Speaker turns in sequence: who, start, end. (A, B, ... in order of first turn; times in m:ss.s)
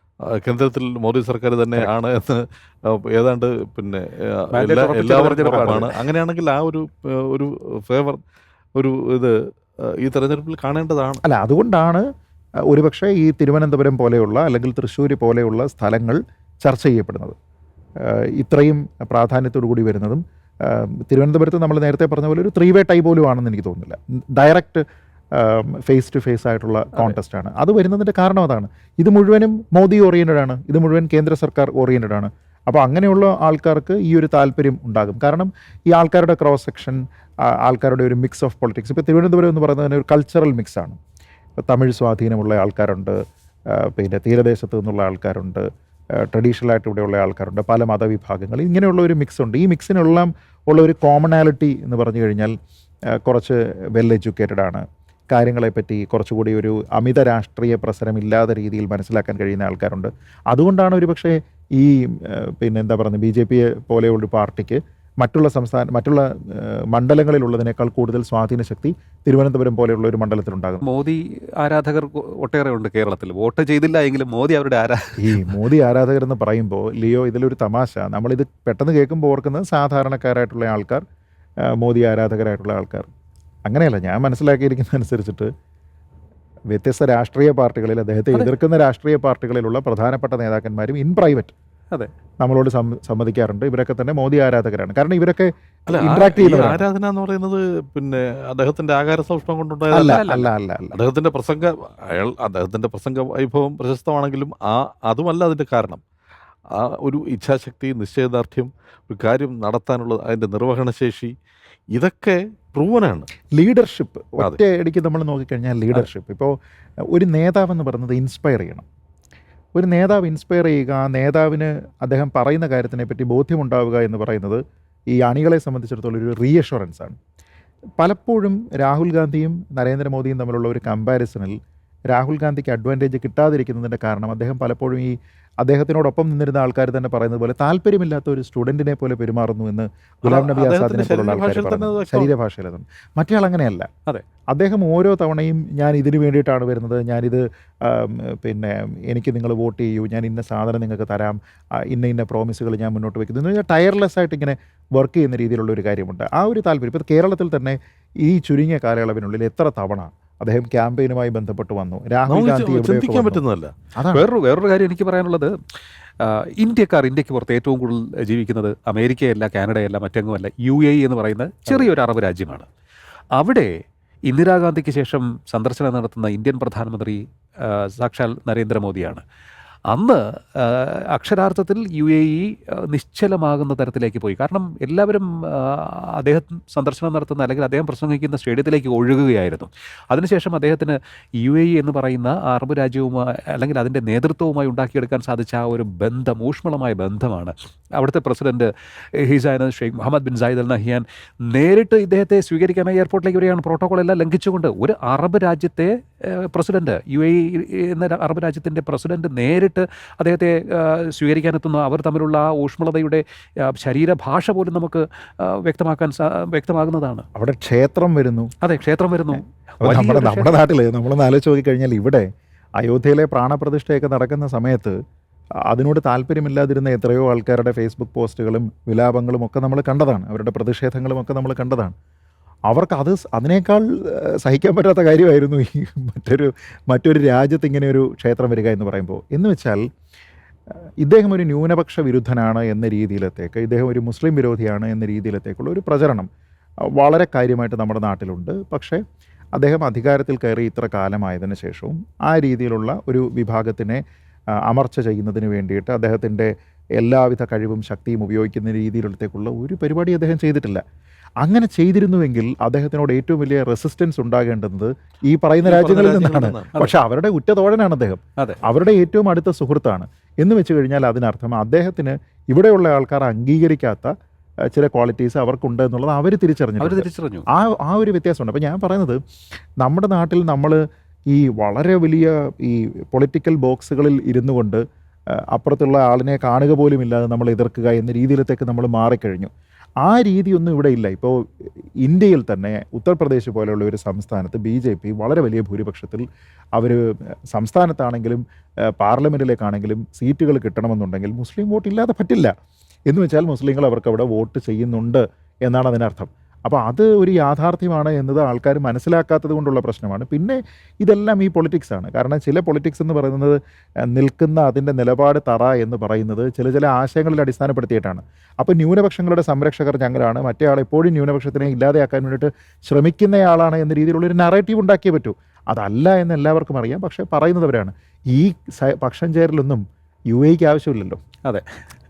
0:00.4-0:08.2 A
0:04.5-0:05.9 B
0:08.8-0:09.4 A
0:09.9-0:11.2 A
0:11.2-0:12.0 C
0:12.7-0:17.3 C
0:18.0-0:24.8 C
0:25.3-0:37.0 C
0:37.6-0:41.0 C
0:41.6-0:43.2 C
0:43.7-0:45.6 C
0:46.2-0:52.5 C
0:53.2-1:10.8 C
1:10.8-1:15.6 B
1:15.2-1:21.0 C
1:21.7-1:23.1 C
1:23.6-1:25.5 C
1:26.7-1:31.5 C
1:32.4-1:36.8 C
1:35.9-1:40.3 A
1:39.9-1:41.0 C
1:39.9-1:40.4 B
1:40.9-1:46.0 A
1:46.7-1:51.3 A
1:51.9-1:53.3 A
1:53.5-1:56.5 C
1:57.1-1:58.8 C
1:59.8-2:04.6 C
2:05.1-2:07.2 C
2:08.0-2:11.6 C
2:12.1-2:23.9 C
2:20.2-2:22.3 A
2:24.5-2:43.4 C
2:42.3-2:43.7 A
2:43.9-2:44.3 C
2:44.1-2:45.5 B
2:46.2-2:52.6 B
2:53.4-2:53.7 B
2:54.3-2:59.2 B
2:59.9-3:37.2 B
3:37.3-3:38.5 C
3:38.6-3:40.6 B
3:39.8-3:42.2 C
3:42.8-3:45.0 C
3:45.7-3:51.9 C
3:52.7-3:59.8 C
4:01.0-4:06.3 C
4:07.0-4:09.0 C
4:09.6-4:14.0 C
4:14.7-4:20.8 C
4:21.4-4:34.1 C
4:25.6-4:26.7 A
4:34.7-4:39.2 C
4:36.8-4:37.5 B
4:39.8-4:40.8 C
4:41.3-4:44.8 C
4:45.5-4:49.5 C
4:50.0-4:56.2 C
4:56.8-4:58.4 C
4:59.0-5:02.5 C
5:03.1-5:13.6 C
5:14.1-5:31.2 C